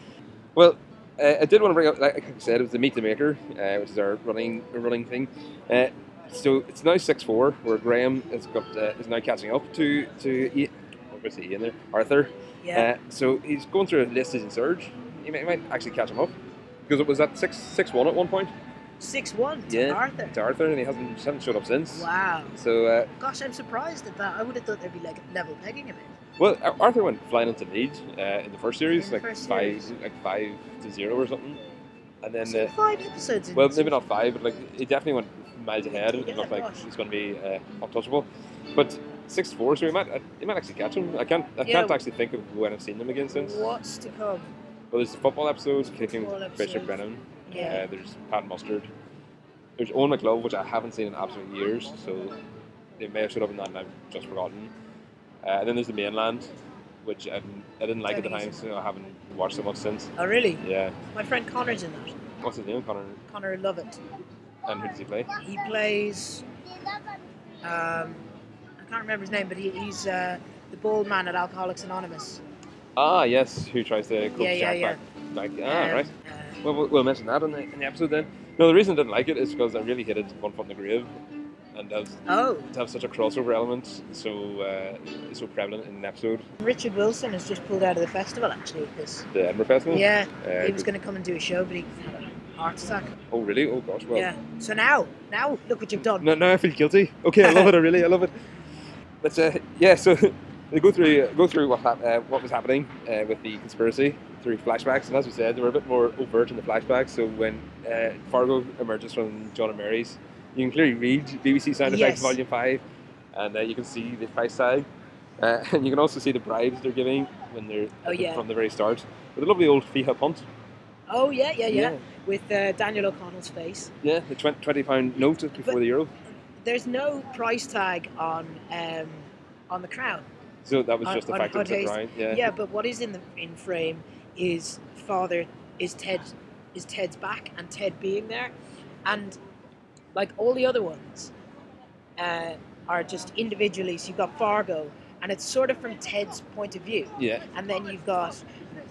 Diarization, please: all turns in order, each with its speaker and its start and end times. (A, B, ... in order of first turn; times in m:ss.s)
0:00.6-0:16.3 A
0:12.6-0:12.9 B
0:16.9-0:18.5 A
0:19.0-0:20.4 B
0:19.7-0:23.1 A
0:21.9-0:22.6 B
0:23.2-0:26.1 B
0:26.4-0:31.6 A
0:28.9-0:29.9 B
0:32.2-0:32.7 A
0:32.4-0:34.0 B
0:33.6-0:43.8 A
0:35.9-0:36.9 B
0:41.6-0:42.0 B
0:43.3-0:44.5 B
0:44.9-0:48.9 A
0:46.1-0:47.9 B
0:49.8-0:52.4 A
0:53.0-0:54.7 A
0:55.4-0:56.5 A
0:57.0-1:01.0 A
0:58.1-0:58.6 B
1:00.2-1:00.6 B
1:01.1-1:02.2 B
1:02.4-1:03.2 A
1:03.3-1:04.0 B
1:04.7-1:05.3 A
1:05.4-1:06.4 B
1:07.6-1:08.2 B
1:08.8-1:12.4 B
1:13.0-1:16.1 A
1:14.4-1:15.0 B
1:15.6-1:16.6 B
1:16.6-1:21.1 A
1:21.7-1:26.5 A
1:22.3-1:22.7 B
1:26.6-1:29.3 B
1:29.3-1:30.9 A
1:29.9-1:33.1 B
1:33.3-1:34.3 A
1:34.1-1:36.3 B
1:36.2-1:38.3 A
1:37.4-1:37.7 B
1:39.2-1:52.8 A
1:51.8-1:52.4 B
1:53.3-1:54.9 A
1:55.4-2:00.5 A
1:58.0-1:58.4 B
2:01.1-2:03.9 B
2:01.7-2:02.0 A
2:04.0-2:06.1 A
2:06.6-2:10.3 B
2:10.6-2:12.4 A
2:11.0-2:18.5 B
2:19.1-2:19.4 B
2:20.1-2:21.3 B
2:22.2-2:28.4 B
2:27.2-2:27.5 A